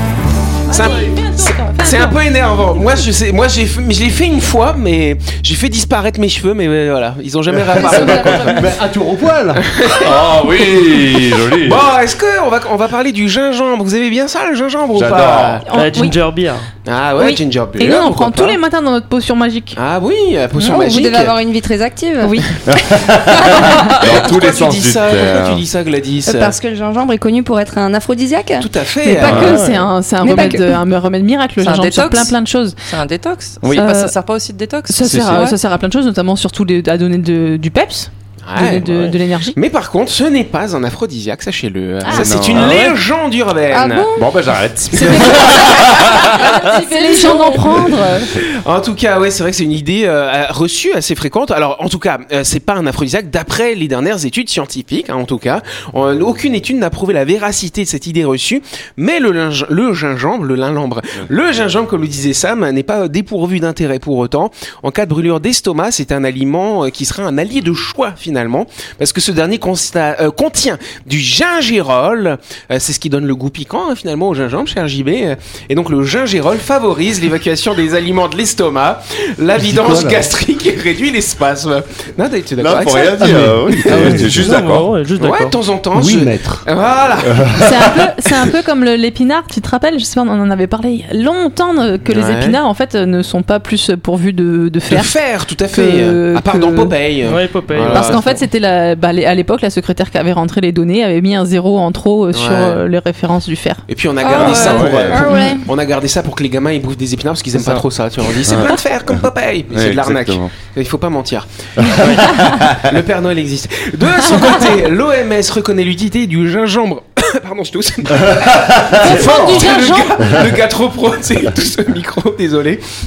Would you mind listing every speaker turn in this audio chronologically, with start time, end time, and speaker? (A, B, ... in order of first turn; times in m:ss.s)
0:00.7-0:02.2 A
0:00.7-0:08.7 B
0:02.7-0:03.0 A
0:07.7-0:08.6 C
0:07.8-0:09.7 D
0:07.8-0:08.1 E
0:09.6-0:10.4 B
0:09.9-0:11.9 C
0:11.5-0:15.6 B
0:14.9-0:15.6 C
0:15.7-0:16.2 A
0:15.7-0:16.7 F
0:16.8-0:18.6 B
0:17.2-0:19.8 A
0:19.7-0:21.4 B
0:20.7-0:23.0 G
0:22.6-0:25.6 C
0:24.0-0:26.5 B
0:26.2-0:28.7 G
0:28.6-0:29.6 B
0:29.0-0:32.8 A
0:29.2-0:29.6 C
0:29.3-0:29.9 F
0:30.2-0:30.6 G
0:31.6-0:35.6 E
0:33.7-0:34.2 A
0:34.9-0:39.6 A
0:38.4-0:38.9 B
0:38.9-0:39.1 F
0:39.5-0:44.2 B
0:42.1-0:42.8 C
0:42.5-0:43.0 F
0:43.7-0:44.0 G
0:44.1-0:46.6 C
0:45.0-0:45.4 B
0:45.4-0:45.6 A
0:46.4-0:47.9 E
0:46.6-0:48.3 A
0:46.9-0:47.6 G
0:48.6-1:24.2 B
1:19.6-1:20.2 D
1:22.6-1:24.9 C
1:23.2-1:24.4 D
1:24.0-1:25.6 F
1:25.2-1:27.5 B
1:25.9-1:26.6 D
1:27.5-1:27.8 C
1:27.6-1:35.1 A
1:32.0-1:32.6 B
1:34.9-1:38.4 B
1:35.7-1:37.0 A
1:37.2-1:38.4 F
1:37.8-1:43.8 A
1:42.3-1:42.8 B
1:43.9-2:02.8 B
1:44.2-1:45.5 E
1:44.3-1:45.6 A
1:44.4-1:45.3 C
1:48.4-1:49.2 C
1:49.7-1:50.5 C
1:51.8-1:52.8 C
1:52.0-1:52.3 F
1:54.3-1:54.5 A
1:58.3-1:59.1 C
1:59.0-2:00.4 A